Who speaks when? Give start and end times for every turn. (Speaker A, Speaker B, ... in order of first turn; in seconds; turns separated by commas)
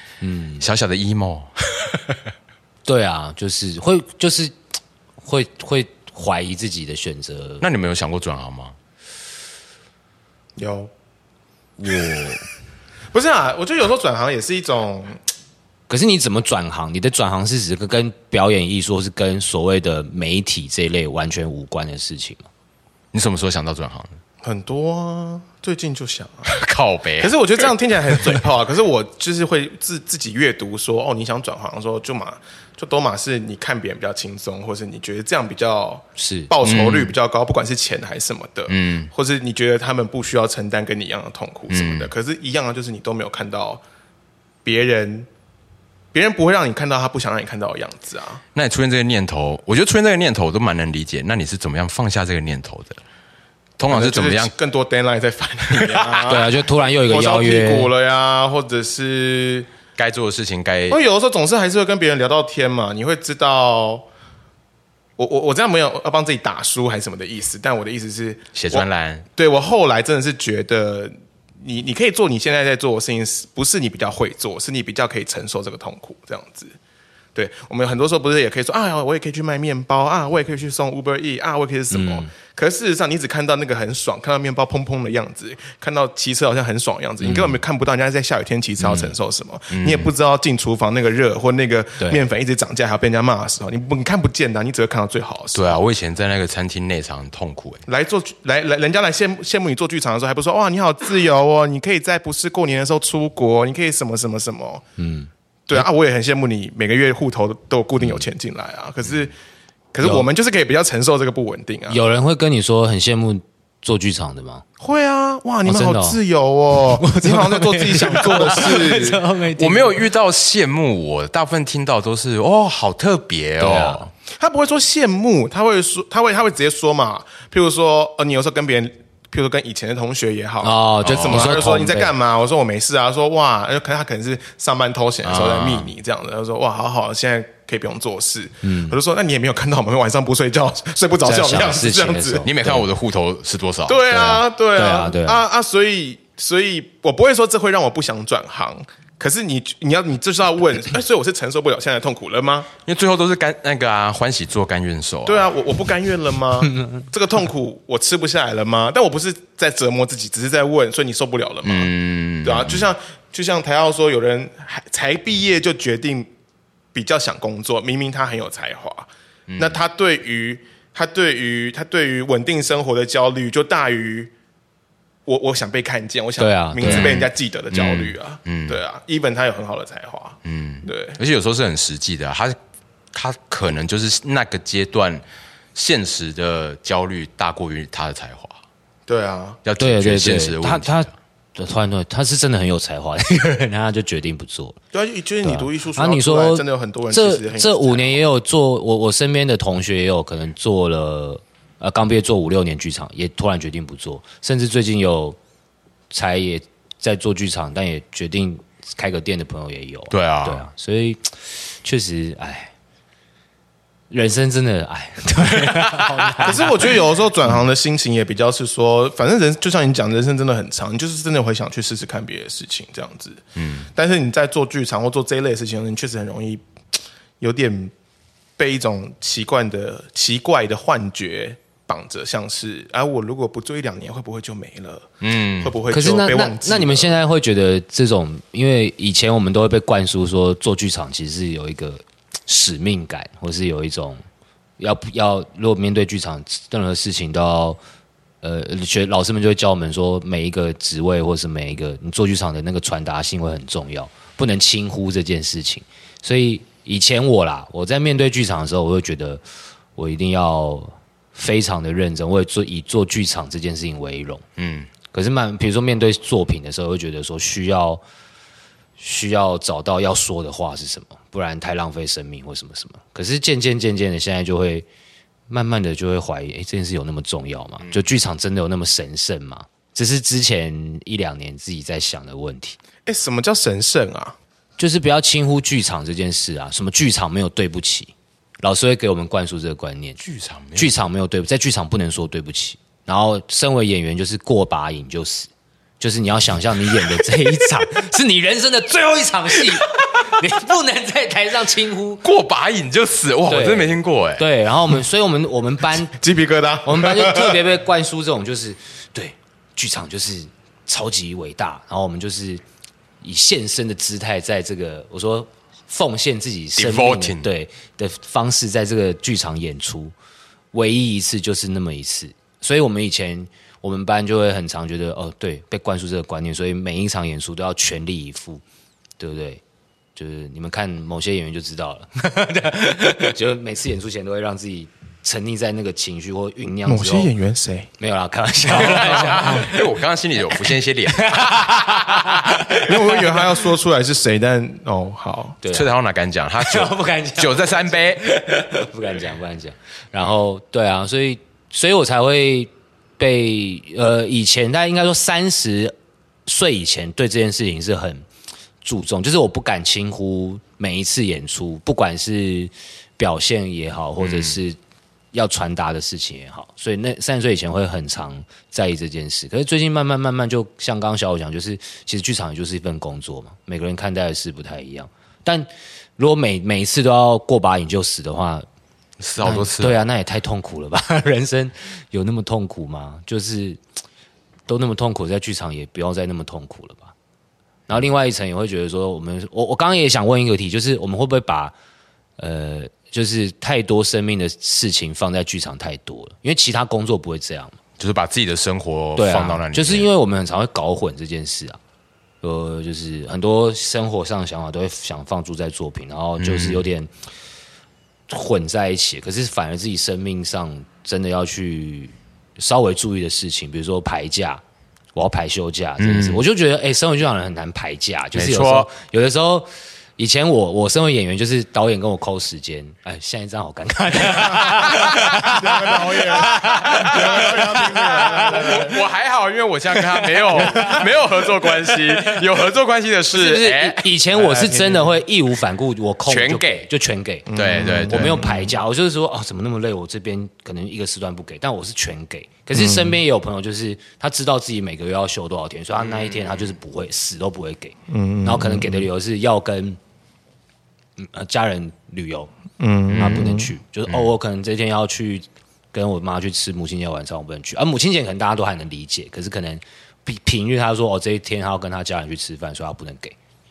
Speaker A: 0.2-0.7, Speaker B: 0.6-2.1, Speaker A: 2.8-4.5, Speaker A: 5.2-7.6, Speaker B: 7.6-8.8, Speaker C: 10.6-10.9, Speaker A: 11.8-12.4, Speaker C: 13.1-15.2, Speaker A: 15.9-22.5, Speaker B: 23.1-24.2, Speaker C: 24.4-26.6, Speaker B: 26.5-27.3, Speaker C: 27.2-43.8, Speaker A: 36.2-36.5, Speaker B: 36.6-37.1, Speaker B: 38.7-39.1, Speaker B: 41.7-42.1, Speaker C: 44.6-45.3, Speaker C: 46.1-48.4, Speaker B: 48.5-53.0, Speaker B: 53.8-54.5, Speaker C: 53.9-59.7, Speaker B: 55.7-56.3, Speaker A: 56.3-57.9, Speaker B: 60.0-61.0, Speaker C: 60.9-64.0, Speaker C: 65.2-76.7, Speaker B: 68.5-69.2, Speaker C: 77.3-95.8, Speaker A: 81.9-82.3, Speaker A: 87.2-87.5, Speaker B: 89.7-90.1, Speaker B: 95.5-97.8, Speaker C: 97.9-104.8, Speaker A: 105.0-105.8, Speaker C: 105.7-109.3, Speaker C: 109.9-112.0, Speaker A: 111.9-114.6, Speaker C: 114.8-119.2, Speaker A: 115.6-116.2, Speaker A: 117.0-120.0, Speaker B: 119.5-124.1, Speaker A: 123.6-124.0, Speaker C: 124.3-142.4, Speaker A: 130.6-132.1, Speaker B: 131.0-131.6, Speaker B: 135.2-135.9, Speaker A: 138.6-138.9, Speaker A: 141.2-142.8, Speaker B: 142.4-144.0, Speaker C: 143.9-152.7, Speaker A: 144.1-145.4, Speaker B: 152.8-155.5, Speaker C: 155.2-166.3, Speaker B: 161.6-162.9, Speaker C: 166.9-174.3, Speaker B: 169.5-169.8, Speaker C: 175.2-181.2, Speaker A: 176.4-177.1, Speaker B: 176.8-178.8, Speaker B: 180.4-182.6, Speaker B: 183.1-185.2, Speaker B: 185.7-188.6, Speaker C: 189.1-189.6, Speaker B: 189.6-191.1, Speaker A: 189.8-194.8, Speaker C: 194.9-198.2, Speaker A: 195.4-205.4, Speaker A: 206.1-212.7, Speaker B: 210.1-210.6, Speaker A: 214.1-216.9, Speaker B: 215.6-216.7, Speaker C: 216.4-223.4, Speaker B: 223.6-223.9, Speaker C: 223.9-226.6, Speaker C: 227.4-227.9, Speaker C: 228.6-237.2, Speaker B: 235.2-235.7, Speaker A: 235.9-244.2, Speaker A: 244.8-247.8, Speaker A: 248.4-259.4, Speaker A: 259.9-264.4, Speaker B: 264.6-264.9, Speaker A: 265.1-268.0, Speaker A: 269.0-274.9, Speaker A: 275.5-282.8, Speaker C: 283.1-284.4, Speaker A: 284.8-290.2, Speaker B: 290.2-291.0, Speaker A: 290.7-295.5, Speaker A: 296.0-302.2, Speaker B: 302.2-304.4, Speaker A: 303.5-306.1, Speaker C: 306.1-307.6, Speaker A: 306.8-312.6, Speaker A: 313.2-320.1, Speaker B: 316.8-317.5, Speaker A: 320.7-328.6, Speaker A: 329.2-329.6, Speaker A: 330.1-337.3, Speaker C: 336.9-337.9, Speaker A: 338.0-339.8, Speaker B: 338.7-342.4, Speaker C: 338.8-339.7, Speaker A: 341.1-343.5, Speaker C: 342.8-345.6, Speaker A: 345.6-345.9, Speaker B: 345.7-348.2, Speaker A: 346.6-355.9, Speaker A: 356.4-358.2, Speaker A: 358.8-364.8, Speaker B: 364.2-364.6, Speaker A: 365.3-378.6, Speaker B: 379.2-380.0, Speaker A: 379.4-383.8, Speaker A: 384.7-387.1, Speaker A: 387.9-391.7, Speaker A: 392.4-397.8, Speaker B: 398.0-400.1, Speaker A: 399.1-401.8, Speaker A: 402.4-407.1, Speaker B: 406.4-406.9, Speaker A: 408.3-414.6, Speaker A: 415.1-428.9, Speaker B: 416.0-416.4, Speaker B: 418.3-418.9, Speaker C: 424.3-429.0, Speaker B: 424.8-425.5, Speaker B: 426.3-434.1, Speaker A: 430.5-431.0, Speaker C: 430.6-431.0, Speaker A: 433.3-450.0, Speaker C: 434.3-435.2, Speaker B: 436.3-436.9, Speaker C: 437.5-438.7, Speaker B: 437.5-438.5, Speaker C: 442.7-443.2, Speaker B: 446.0-446.7, Speaker C: 448.1-449.1, Speaker A: 451.2-452.5, Speaker C: 452.8-453.7, Speaker B: 453.1-453.5, Speaker A: 453.1-463.4